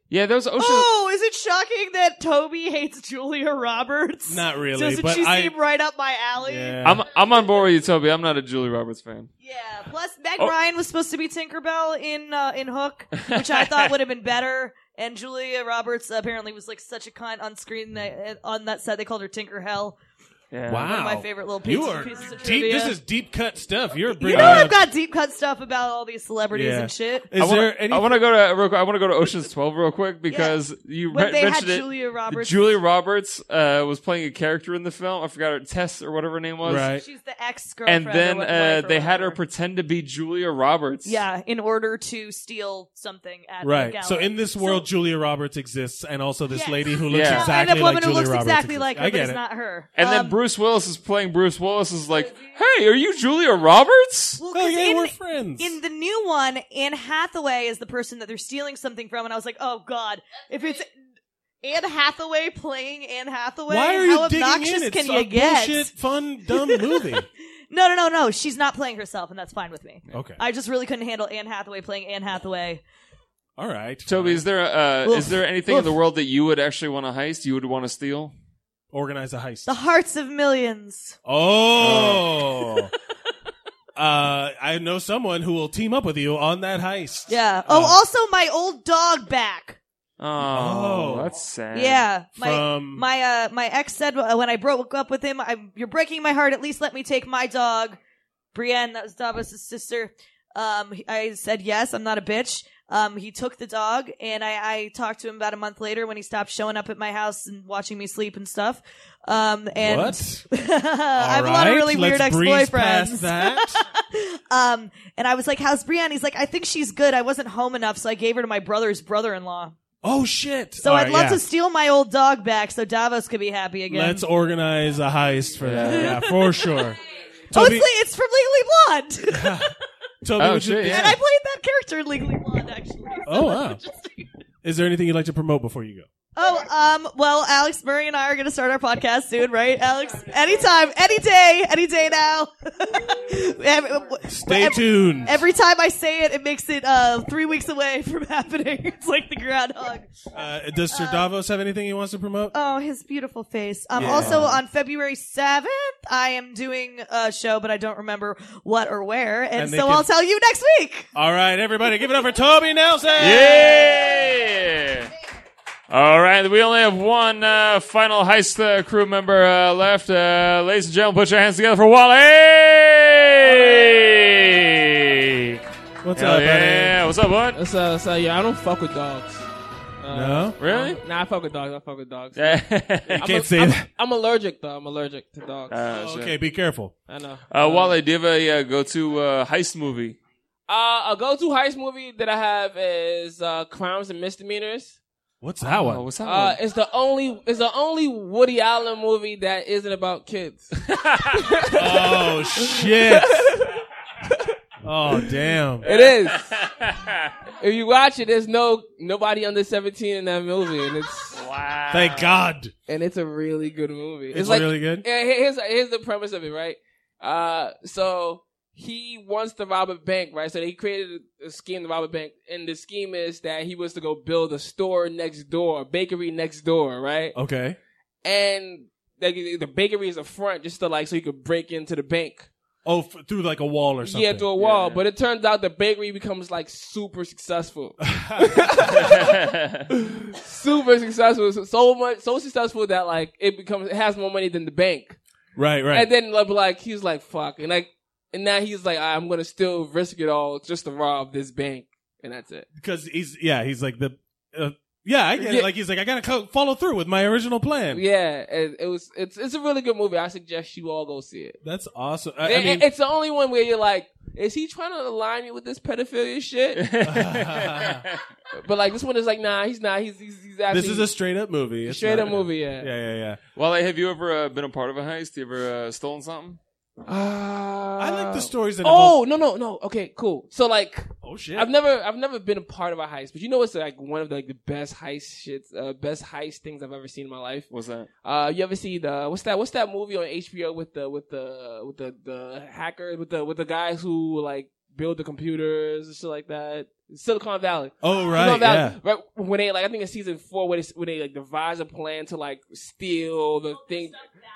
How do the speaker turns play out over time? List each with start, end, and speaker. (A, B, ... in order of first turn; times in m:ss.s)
0:00.1-0:00.9 A
0:00.6-0:06.8 B
0:04.3-0:05.6 C
0:06.4-0:07.0 C
0:06.8-0:09.3 A
0:09.4-0:20.0 B
0:13.2-0:13.9 A
0:20.5-0:20.9 A
0:20.7-0:24.8 C
0:20.8-0:23.0 B
0:24.1-0:27.3 B
0:24.4-0:24.7 A
0:26.5-0:28.2 C
0:27.4-0:36.9 A
0:30.3-0:30.6 B
0:31.1-0:32.7 B
0:36.6-0:37.0 C
0:36.9-0:39.4 B
0:37.8-0:41.2 A
0:41.0-0:44.8 B
0:43.6-0:49.4 C
0:46.5-0:50.4 B
0:47.1-0:47.5 A
0:50.0-0:54.4 A
0:54.4-1:00.9 B
0:54.5-0:55.8 C
1:01.6-1:05.9 B
1:03.7-1:07.3 C
1:06.6-1:07.0 B
1:07.7-1:12.8 B
1:10.1-1:10.4 C
1:13.6-1:14.4 C
1:14.0-1:18.3 A
1:15.0-1:15.8 B
1:18.9-1:19.7 C
1:19.6-1:21.2 B
1:21.2-1:22.9 C
1:21.8-1:22.2 A
1:24.0-1:28.0 C
1:27.3-1:29.8 B
1:30.2-1:32.0 A
1:30.4-1:31.3 C
1:31.7-1:38.0 B
1:32.3-1:33.0 C
1:38.5-1:59.8 B
1:49.8-1:50.4 C
1:51.2-1:53.8 C
2:00.0-2:01.4 C
2:00.8-2:04.2 B
2:03.9-2:07.0 C
2:05.6-2:06.2 A
2:05.8-2:06.8 B
2:07.5-2:07.9 C
2:07.5-2:09.7 B
2:09.3-2:09.7 C
2:10.2-2:11.2 C
2:10.4-2:11.2 A
2:10.8-2:14.3 B
2:13.2-2:13.8 C
2:14.6-2:16.1 C
2:16.4-2:30.1 B
2:24.2-2:25.4 C
2:30.3-2:32.5 C
2:30.9-2:31.2 B
2:32.5-2:41.1 B
2:33.9-2:34.6 C
2:39.6-2:40.0 C
2:41.1-2:43.8 C
2:43.2-2:45.1 A
2:43.2-2:44.1 B
2:45.9-2:55.6 A
2:56.0-2:57.0 C
2:56.2-2:57.6 A
2:57.5-2:59.4 D
3:00.0-3:05.8 D
3:00.1-3:00.6 C
3:00.6-3:01.0 A
3:02.3-3:03.2 A
3:03.1-3:03.9 C
3:05.7-3:06.3 A
3:05.9-3:06.9 C
3:07.1-3:08.0 D
3:07.5-3:10.2 A
3:10.7-3:15.0 D
3:15.4-3:16.2 C
3:15.6-3:16.6 A
3:16.2-3:20.7 D
3:20.8-3:21.3 A
3:21.4-3:23.7 D
3:21.7-3:23.5 C
3:24.8-3:25.9 C
3:25.8-3:26.5 D
3:25.8-3:27.3 A
3:27.6-3:31.4 D
3:31.3-3:32.3 A
3:31.9-3:32.7 C
3:32.9-3:47.4 D
3:34.3-3:35.0 C
3:47.3-3:47.8 C
3:48.2-3:52.5 D
3:52.8-3:54.5 C
3:54.0-3:59.4 D
3:54.6-3:55.0 A
3:58.0-3:59.1 C
3:58.9-3:59.9 A
4:00.4-4:05.2 D
4:05.6-4:06.1 C
4:05.9-4:12.7 D
4:12.7-4:18.0 C
4:15.4-4:15.7 D
4:17.9-4:21.6 D
4:21.6-4:22.9 C
4:22.4-4:26.9 D
4:26.8-4:28.0 A
4:27.0-4:28.0 C
4:28.6-4:31.1 D
4:30.7-4:33.4 C
4:31.8-4:32.9 D
4:33.6-4:36.6 A
4:37.0-4:47.7 D
4:38.0-4:39.2 C
4:41.2-4:41.7 C
4:47.7-4:48.1 A
4:48.2-5:04.2 D
4:58.0-4:59.0 C